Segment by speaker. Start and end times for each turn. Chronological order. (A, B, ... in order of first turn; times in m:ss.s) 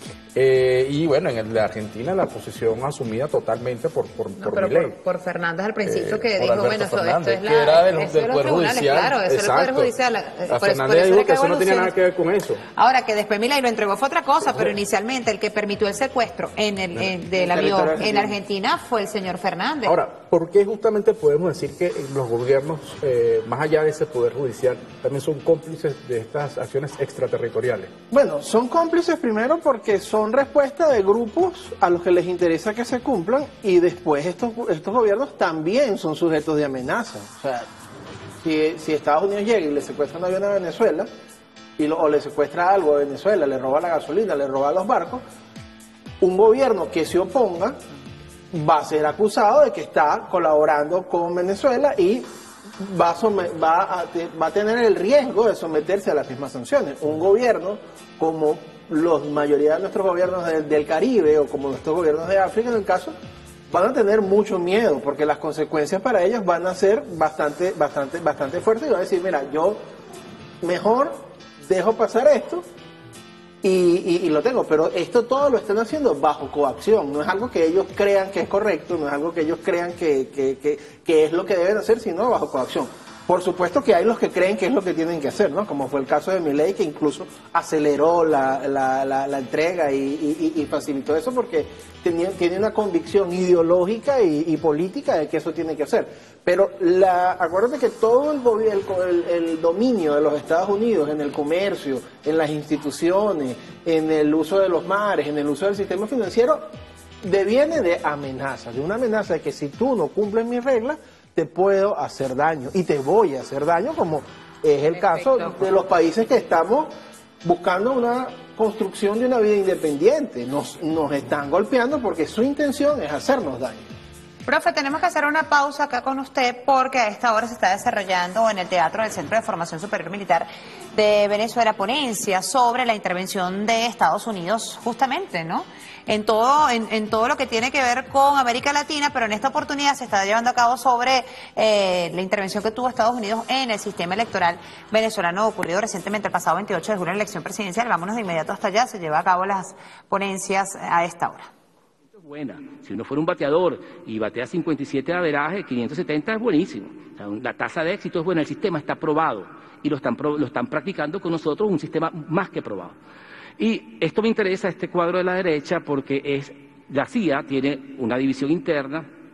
0:00.3-0:04.9 A
0:04.4-0:11.9 B
0:05.8-0:09.9 A
0:10.5-0:12.6 A
0:12.7-0:20.0 B
0:17.3-0:18.4 C
0:19.8-0:27.9 A
0:28.1-0:37.7 C
0:38.4-0:41.1 C
0:41.8-0:45.2 C
0:46.2-0:47.8 C
0:48.5-1:03.1 C
1:03.7-1:09.8 C
1:10.6-1:12.6 C
1:13.6-1:46.7 C
1:47.2-1:56.9 C
1:54.9-1:55.6 B
1:57.4-2:03.9 C
2:04.4-2:31.5 B
2:32.1-2:43.0 D
2:43.6-2:49.1 D